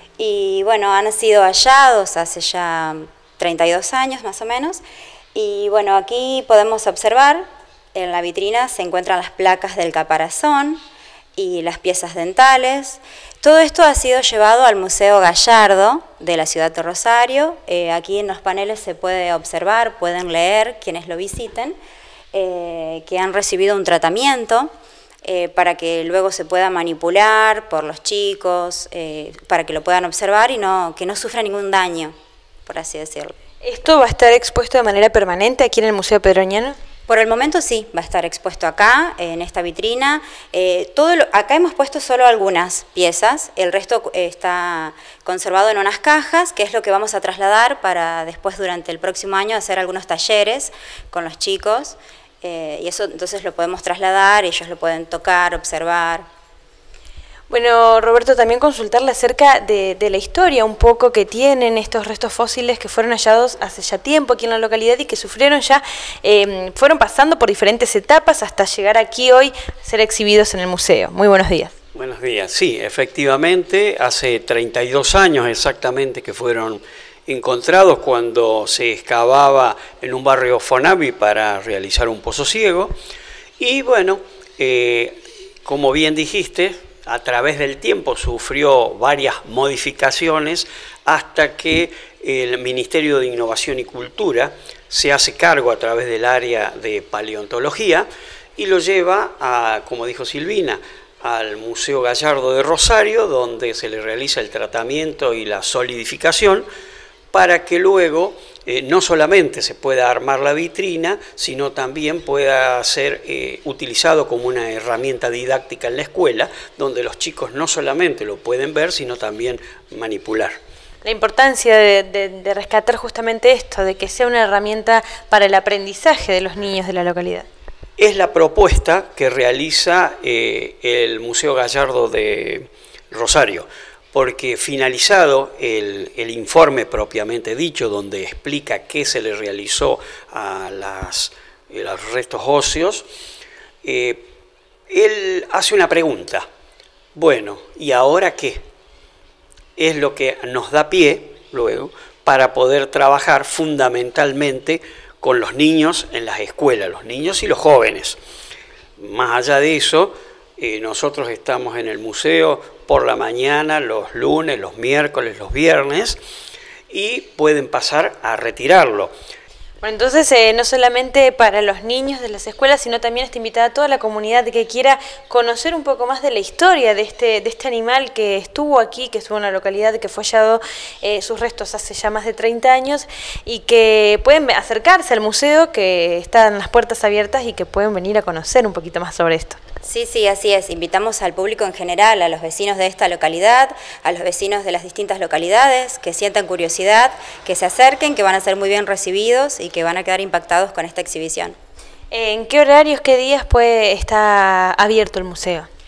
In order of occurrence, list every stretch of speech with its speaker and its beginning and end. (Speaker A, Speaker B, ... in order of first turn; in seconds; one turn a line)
Speaker A: 0.2-4.8
Speaker A: 5.3-10.8
Speaker A: 11.3-21.8
Speaker A: 22.3-24.7
Speaker A: 25.2-32.1
Speaker A: 32.6-33.3
Speaker B: 33.6-36.8
Speaker A: 37.1-56.2
Speaker B: 57.5-71.7
Speaker C: 71.9-82.9
Speaker C: 83.6-106.7
Speaker C: 107.3-120.6
Speaker B: 121.0-127.5
Speaker C: 128.0-143.1
Speaker C: 143.8-144.3
Speaker C: 144.9-146.4
Speaker C: 147.1-148.6
Speaker C: 149.8-158.2
Speaker C: 159.0-166.2
Speaker C: 166.9-169.1
Speaker B: 169.8-189.6
Speaker A: 189.8-201.6
Speaker B: 202.1-205.7